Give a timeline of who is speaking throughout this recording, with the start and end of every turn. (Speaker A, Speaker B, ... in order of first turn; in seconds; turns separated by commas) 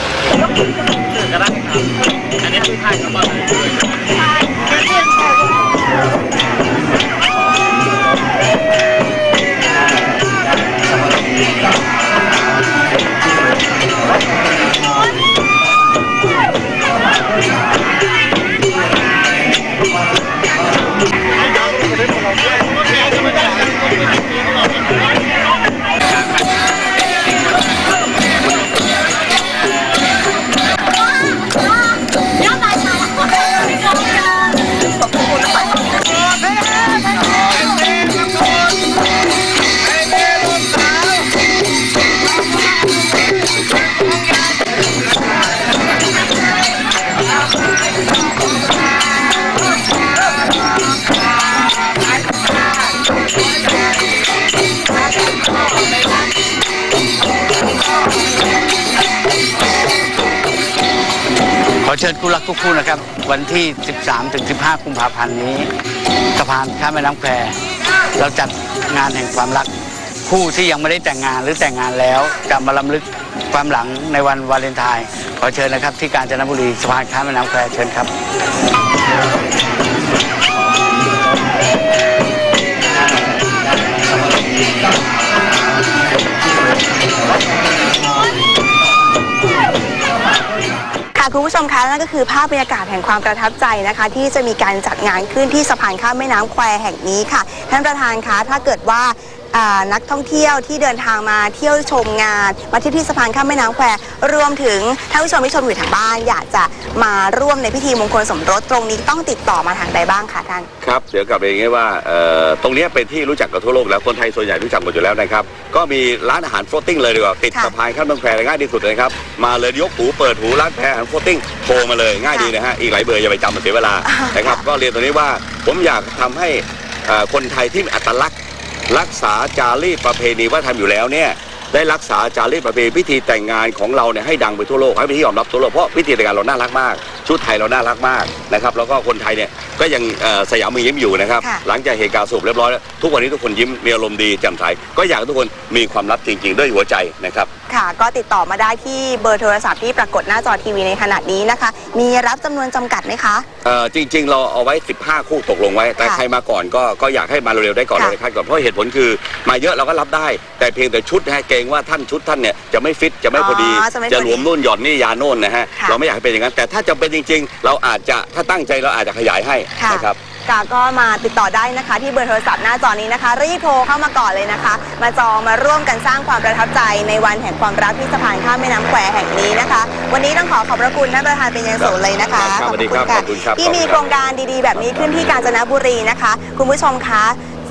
Speaker A: 61.8-65.7, Speaker A: 66.3-67.6, Speaker A: 68.2-69.7, Speaker A: 70.2-78.1, Speaker B: 91.1-110.7, Speaker C: 110.8-128.3, Speaker B: 124.0-124.6, Speaker C: 128.9-147.5, Speaker B: 147.7-153.4, Speaker C: 153.6-170.2, Speaker B: 163.3-164.5, Speaker B: 169.8-187.4, Speaker C: 181.8-184.2, Speaker C: 184.7-185.6